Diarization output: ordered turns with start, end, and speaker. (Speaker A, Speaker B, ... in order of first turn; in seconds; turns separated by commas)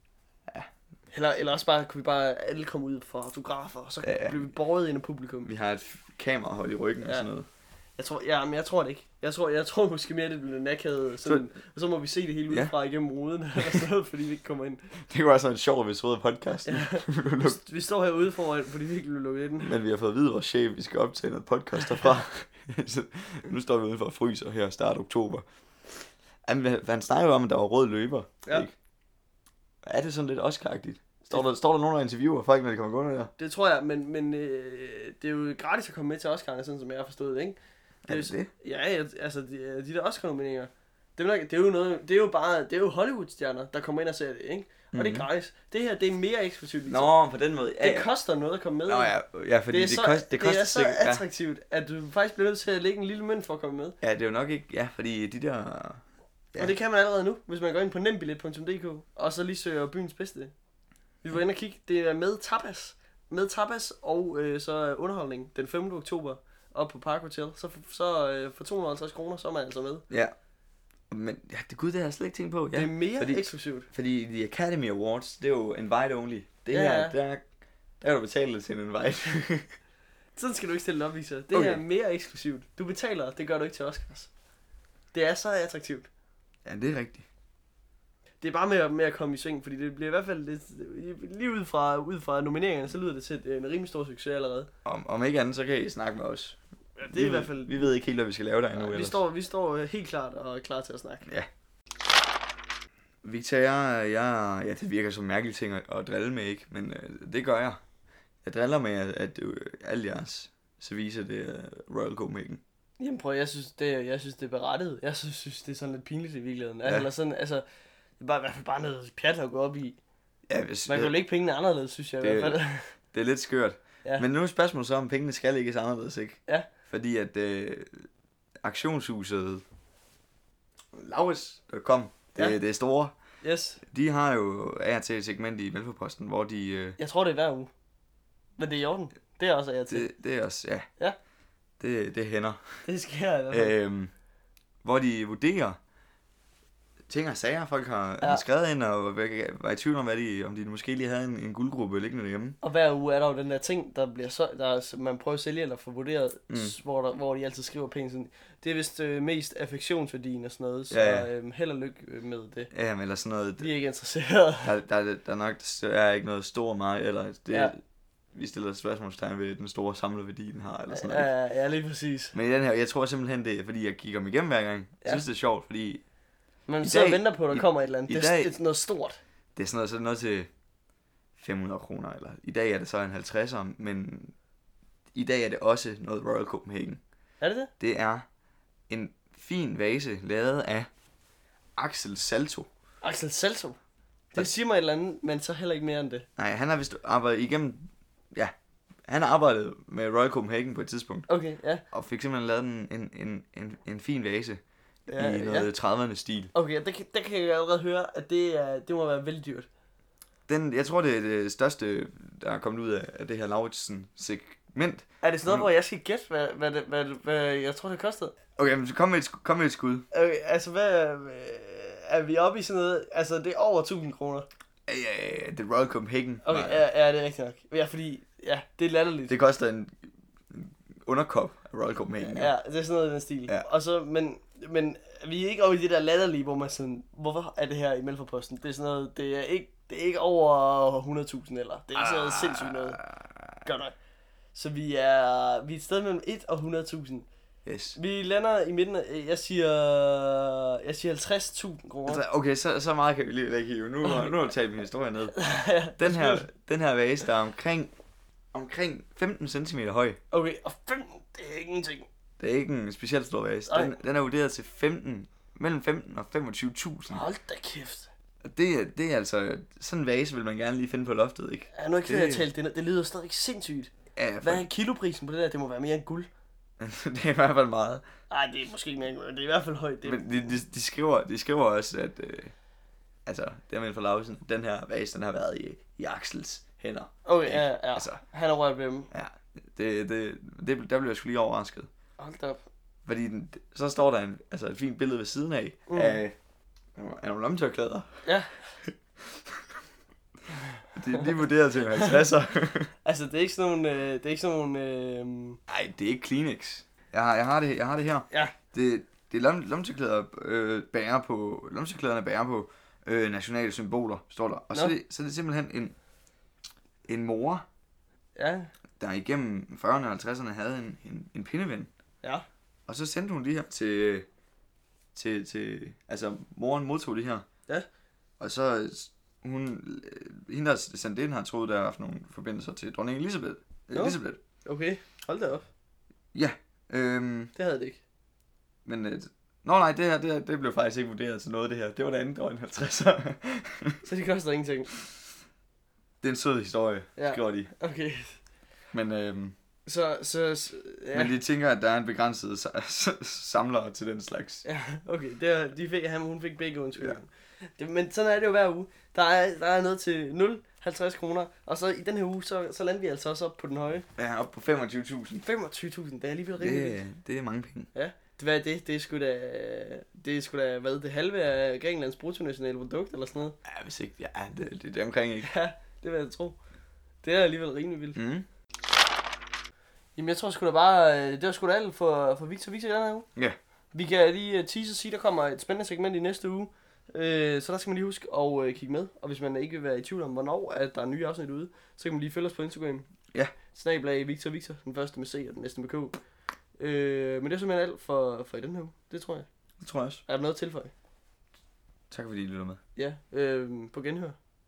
Speaker A: 1.1-5.5, Speaker B: 4.0-4.5, Speaker B: 5.4-7.5, Speaker A: 7.0-7.3, Speaker A: 8.0-14.9, Speaker B: 15.1-17.6, Speaker A: 16.7-19.7, Speaker B: 19.6-28.7, Speaker B: 29.9-33.3, Speaker A: 33.4-37.6, Speaker B: 38.1-38.5, Speaker A: 38.1-47.1, Speaker B: 44.9-45.3, Speaker B: 46.9-48.1, Speaker A: 47.8-49.1, Speaker B: 48.9-51.2, Speaker A: 49.7-54.0, Speaker B: 54.0-56.0, Speaker A: 56.6-60.5, Speaker A: 61.2-70.0, Speaker B: 71.1-77.5, Speaker A: 72.7-73.9, Speaker A: 76.7-77.2, Speaker B: 78.0-79.7, Speaker A: 80.4-84.3, Speaker B: 81.5-81.8, Speaker A: 85.1-86.1, Speaker B: 86.7-87.2, Speaker A: 88.4-94.7, Speaker B: 94.8-96.6, Speaker A: 97.0-97.9, Speaker B: 97.1-99.2, Speaker A: 98.7-101.3, Speaker B: 103.2-107.8, Speaker B: 108.4-112.6, Speaker A: 113.0-117.6, Speaker B: 116.8-117.1, Speaker A: 118.2-120.0, Speaker B: 120.5-121.2, Speaker A: 120.9-122.9, Speaker B: 122.2-122.6, Speaker B: 123.1-128.1, Speaker B: 128.6-129.6, Speaker B: 130.9-133.2, Speaker A: 133.4-133.8, Speaker B: 133.9-137.0, Speaker A: 137.0-137.7, Speaker A: 138.6-140.1, Speaker B: 139.9-140.9, Speaker B: 141.8-142.9, Speaker A: 142.9-143.8, Speaker B: 143.5-144.1, Speaker B: 144.8-145.8, Speaker B: 147.1-152.6, Speaker A: 152.6-162.7, Speaker B: 156.5-156.8, Speaker B: 160.9-161.3, Speaker B: 162.7-163.7, Speaker A: 163.6-164.7, Speaker B: 164.6-167.8, Speaker B: 168.3-171.3, Speaker A: 170.9-172.3, Speaker B: 172.3-176.0, Speaker A: 176.7-179.2, Speaker B: 176.8-178.5, Speaker B: 179.6-180.5, Speaker B: 181.4-184.3, Speaker B: 185.2-187.0, Speaker A: 187.4-187.7, Speaker B: 187.8-188.2, Speaker B: 188.9-190.9, Speaker B: 191.8-192.7, Speaker A: 193.0-193.8, Speaker A: 194.3-196.3, Speaker B: 196.4-198.5, Speaker B: 199.1-201.3, Speaker A: 201.3-201.8, Speaker B: 201.9-204.6, Speaker A: 205.1-205.7, Speaker B: 205.1-206.5, Speaker A: 206.5-209.7, Speaker B: 210.5-215.7, Speaker A: 215.2-218.3, Speaker B: 218.6-220.1, Speaker A: 220.1-224.5, Speaker B: 224.9-226.9, Speaker A: 226.4-229.3, Speaker B: 229.3-229.9, Speaker B: 230.5-232.6, Speaker A: 232.2-243.0, Speaker B: 241.9-243.5, Speaker A: 243.7-243.9, Speaker A: 244.5-247.2, Speaker B: 247.7-248.0, Speaker A: 247.9-252.2, Speaker B: 252.1-255.4, Speaker A: 254.0-254.4, Speaker A: 255.3-256.5, Speaker B: 256.0-257.9, Speaker B: 258.5-260.2, Speaker A: 260.3-262.1, Speaker B: 262.4-267.3, Speaker A: 263.7-263.9, Speaker A: 267.1-268.1, Speaker B: 268.4-272.5, Speaker A: 271.8-276.3, Speaker B: 274.2-274.6, Speaker B: 276.8-278.0, Speaker A: 278.3-280.3, Speaker B: 280.0-282.5, Speaker B: 283.3-288.2, Speaker A: 287.3-289.1, Speaker B: 289.1-291.9, Speaker A: 292.2-292.6, Speaker B: 293.1-296.4, Speaker A: 295.9-296.2, Speaker B: 297.0-298.2, Speaker A: 298.2-298.7, Speaker B: 298.8-299.4, Speaker B: 300.8-302.9, Speaker A: 303.1-305.6, Speaker B: 305.7-315.9, Speaker B: 317.1-317.6, Speaker A: 318.4-318.7, Speaker B: 319.0-321.9, Speaker B: 322.9-324.3, Speaker B: 325.1-327.4, Speaker B: 328.4-334.4, Speaker A: 333.9-335.7, Speaker B: 336.3-337.5, Speaker A: 337.6-338.0, Speaker B: 338.9-344.0, Speaker A: 344.1-344.9, Speaker B: 346.2-347.7, Speaker A: 347.2-348.4, Speaker B: 348.9-349.5, Speaker A: 349.9-351.3, Speaker B: 351.1-354.6, Speaker A: 354.6-364.1, Speaker B: 364.2-365.4, Speaker A: 365.4-367.0, Speaker B: 366.6-367.9, Speaker A: 367.9-373.6, Speaker B: 373.6-375.5, Speaker A: 375.4-376.6, Speaker A: 377.2-378.2, Speaker B: 378.2-378.5, Speaker A: 380.2-383.3, Speaker A: 383.9-393.1, Speaker A: 393.7-396.2, Speaker A: 396.8-399.5, Speaker B: 399.8-400.2, Speaker A: 400.3-400.9, Speaker B: 402.1-402.8, Speaker A: 403.0-404.4